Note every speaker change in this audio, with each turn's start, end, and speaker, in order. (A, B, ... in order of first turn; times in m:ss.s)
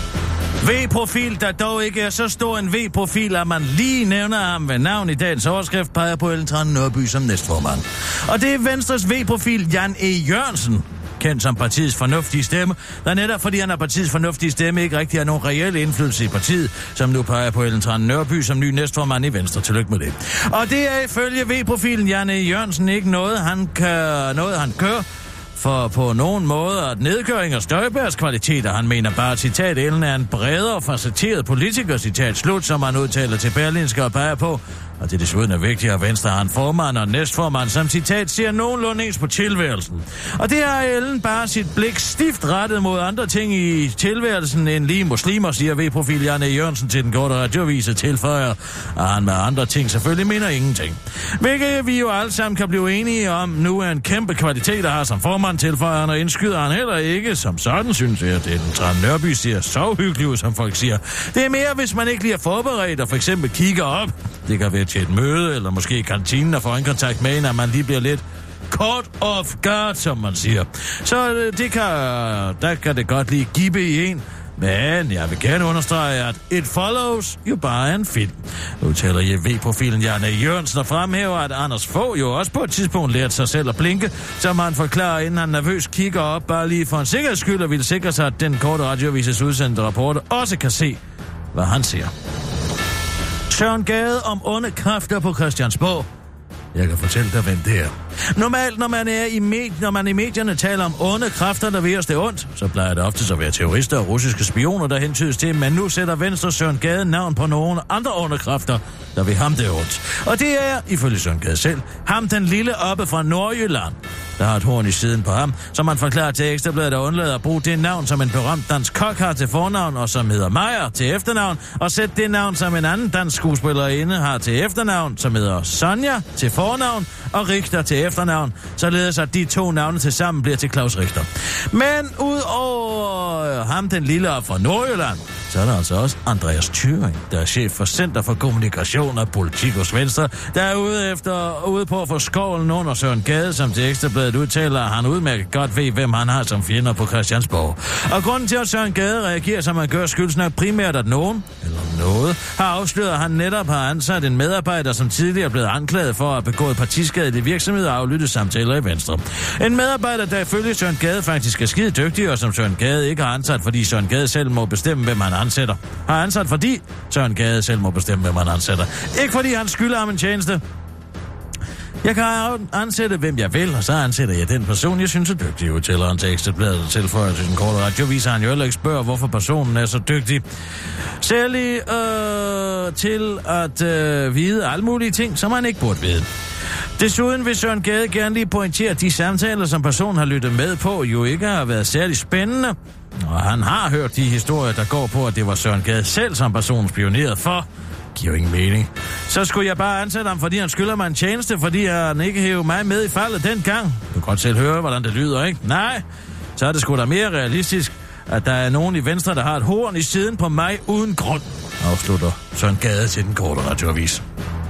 0:00.6-1:31.0 A
1:31.5-1:32.1 A
1:33.5-1:36.1 A
1:36.7-2:50.6 A
2:52.0-3:00.4 A
3:01.2-3:06.3 A
3:07.0-3:26.0 A
3:26.6-3:34.2 A